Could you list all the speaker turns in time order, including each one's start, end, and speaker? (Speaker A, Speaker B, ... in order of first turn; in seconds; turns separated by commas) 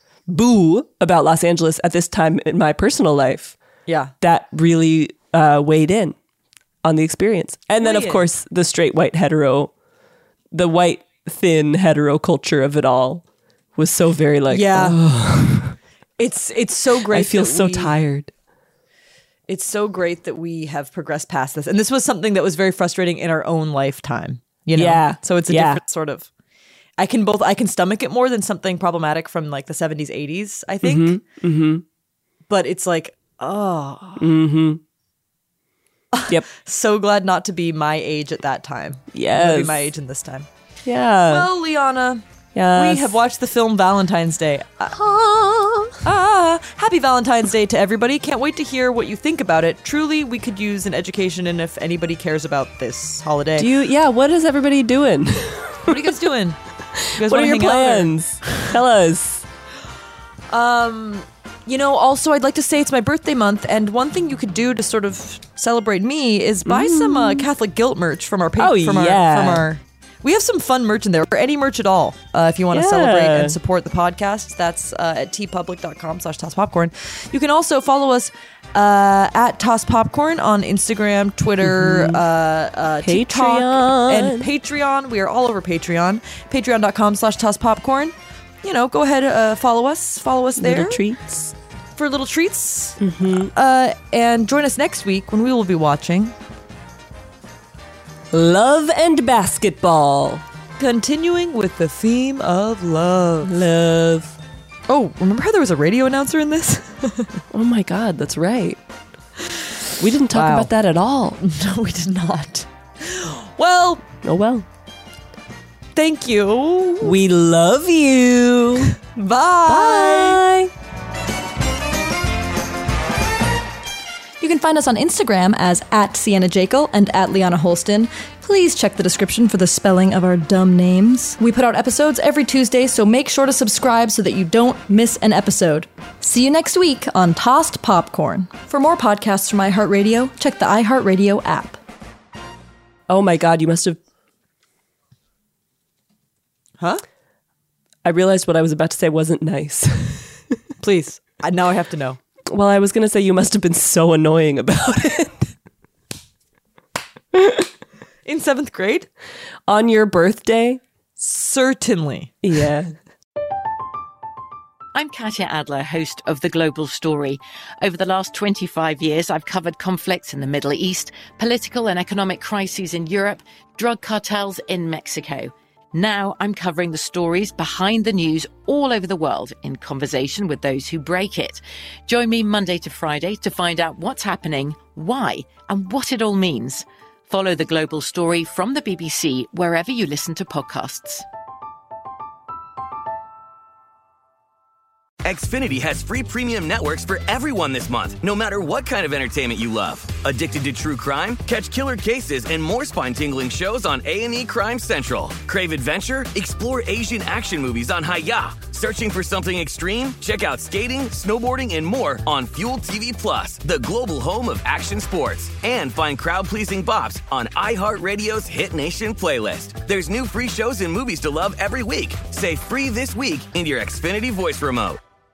Speaker A: 0.3-3.5, Speaker B: 3.9-4.1, Speaker A: 4.2-6.2, Speaker A: 6.8-9.7, Speaker B: 7.8-8.2, Speaker A: 10.5-13.2, Speaker A: 13.8-15.8, Speaker B: 14.5-15.0, Speaker B: 16.2-17.9, Speaker A: 17.1-18.3, Speaker B: 19.5-26.3, Speaker A: 24.8-25.8, Speaker B: 27.0-31.2, Speaker A: 30.8-31.8, Speaker B: 32.5-34.3, Speaker A: 34.2-34.8, Speaker B: 36.1-40.5, Speaker A: 39.1-39.9, Speaker A: 40.9-41.5, Speaker B: 41.3-42.2, Speaker A: 42.5-43.2, Speaker B: 42.7-45.0, Speaker A: 44.9-46.0, Speaker B: 46.0-53.7, Speaker A: 53.6-56.2, Speaker B: 55.9-56.6, Speaker A: 57.0-59.4, Speaker B: 57.1-58.1, Speaker B: 60.5-91.0, Speaker A: 66.6-67.5, Speaker A: 68.6-69.7, Speaker A: 72.7-73.6, Speaker A: 81.6-82.2, Speaker A: 83.0-84.5, Speaker A: 90.6-91.5, Speaker B: 92.0-96.3, Speaker A: 93.0-93.5, Speaker A: 98.3-100.4, Speaker B: 100.8-103.5, Speaker A: 103.4-104.3, Speaker B: 104.9-107.4, Speaker A: 107.5-108.8, Speaker A: 110.0-111.4, Speaker B: 110.3-110.7, Speaker B: 111.4-114.0, Speaker A: 114.2-114.7, Speaker B: 115.9-117.2, Speaker A: 117.0-118.9, Speaker B: 119.1-120.4, Speaker A: 119.7-120.7, Speaker C: 124.4-141.8, Speaker A: 143.1-144.0, Speaker A: 148.0-150.3, Speaker B: 150.8-152.2, Speaker A: 152.5-155.5, Speaker A: 157.3-157.6, Speaker B: 158.2-159.1, Speaker A: 159.7-160.8, Speaker B: 161.2-162.3, Speaker A: 162.4-162.9, Speaker D: 164.9-191.2, Speaker E: 195.2-225.0